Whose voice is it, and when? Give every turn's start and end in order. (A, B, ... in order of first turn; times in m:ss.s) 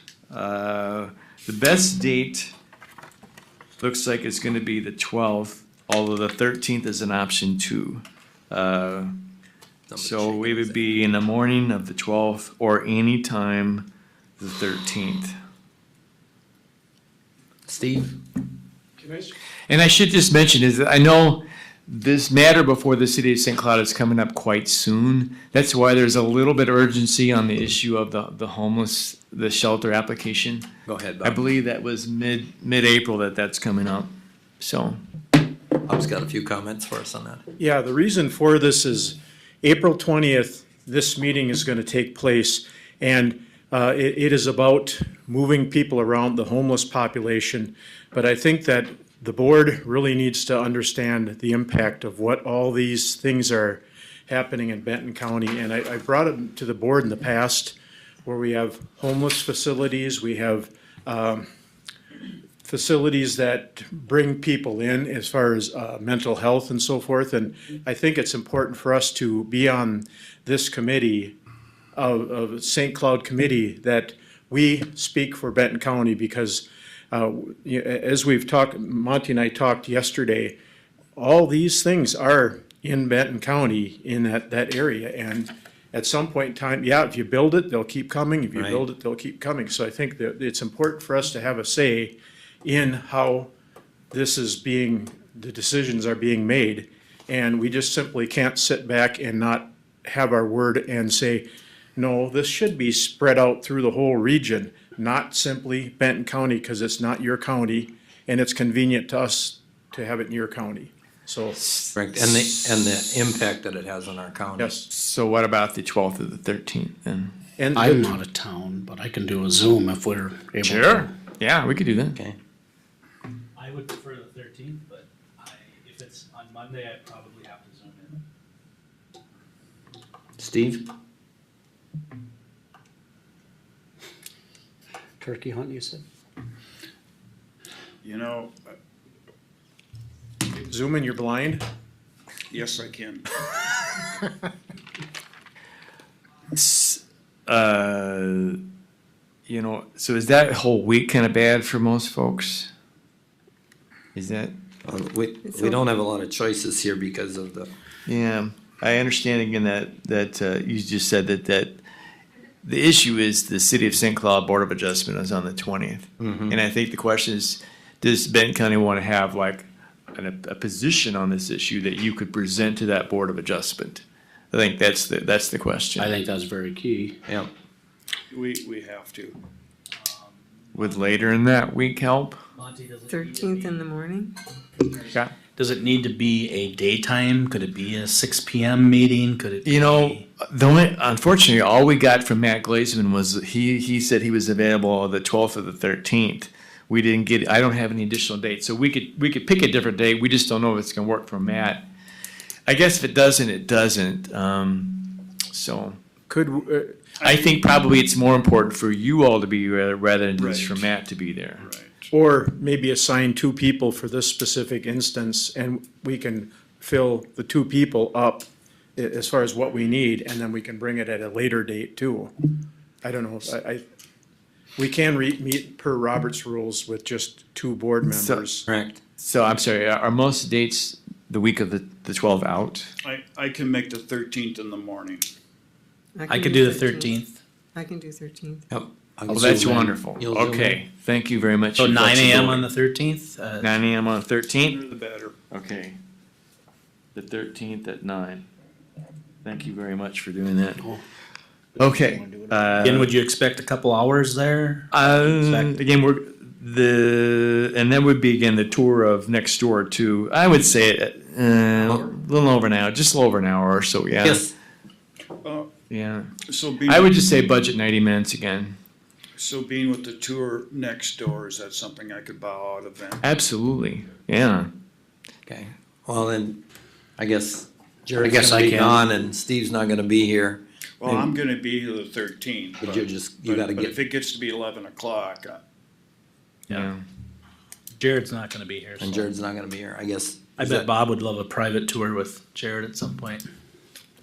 0:00.3-0:02.5 A
0:03.8-0:09.1 A
0:09.9-0:10.8 B
0:10.0-0:13.9 A
0:14.4-0:15.4 A
0:17.7-0:18.2 B
0:19.0-0:19.3 C
0:19.7-0:30.7 A
0:30.9-0:31.4 B
0:31.2-0:35.0 A
0:35.8-0:37.4 B
0:37.6-1:01.4 C
1:02.6-1:11.3 C
1:12.0-1:20.6 C
1:21.2-1:33.5 C
1:28.6-1:28.8 B
1:34.1-1:41.4 C
1:42.0-1:51.6 C
1:51.9-1:54.8 B
1:54.6-1:54.9 C
1:54.9-1:57.3 A
1:57.6-1:58.1 C
1:57.8-2:00.8 D
1:57.9-2:00.9 E
2:00.6-2:02.2 A
2:03.6-2:08.2 D
2:10.4-2:10.8 B
2:15.2-2:16.0 E
2:18.0-2:18.6 F
2:20.5-2:21.6 C
2:22.5-2:23.2 F
2:26.5-2:28.6 A
2:29.5-2:32.7 A
2:34.1-2:34.5 A
2:34.8-2:37.7 B
2:35.5-2:35.8 G
2:38.0-2:41.8 A
2:42.6-2:56.1 A
2:46.2-2:46.5 B
2:56.0-2:57.1 E
2:56.9-2:57.1 D
2:58.3-2:59.4 F
3:00.0-3:01.1 D
3:00.7-3:02.4 A
3:02.5-3:03.9 D
3:03.1-3:04.3 G
3:05.6-3:10.2 D
3:09.6-3:21.8 A
3:22.7-3:26.0 A
3:26.3-3:27.0 C
3:27.2-3:31.7 A
3:30.4-3:30.9 F
3:31.6-3:32.1 F
3:32.1-3:42.3 C
3:43.0-3:43.8 C
3:44.8-3:48.7 C
3:48.1-3:48.4 A
3:48.7-3:49.0 B
3:49.2-3:52.9 A
3:53.0-3:55.2 F
3:56.2-3:58.6 G
3:56.3-3:57.4 D
3:58.7-4:00.8 B
3:59.3-3:59.6 D
3:59.3-4:02.7 A
4:01.8-4:03.7 D
4:03.6-4:04.8 A
4:04.6-4:05.4 F
4:05.5-4:06.0 A
4:07.1-4:08.4 A
4:09.4-4:10.9 A
4:11.8-4:13.1 A
4:11.8-4:12.6 E
4:12.8-4:15.8 D
4:14.9-4:24.5 A
4:21.8-4:22.1 B
4:24.2-4:24.5 B
4:25.4-4:25.7 F
4:25.9-4:26.3 A
4:26.5-4:27.2 F
4:26.9-4:28.8 A
4:29.4-4:33.2 F
4:33.2-4:34.7 A
4:35.5-4:36.6 B
4:37.2-4:41.2 B
4:38.2-4:39.0 D
4:41.0-4:45.6 F
4:42.8-4:44.0 B
4:46.7-4:47.0 A
4:48.0-4:49.3 D
4:49.0-4:50.9 B
4:50.6-4:53.4 D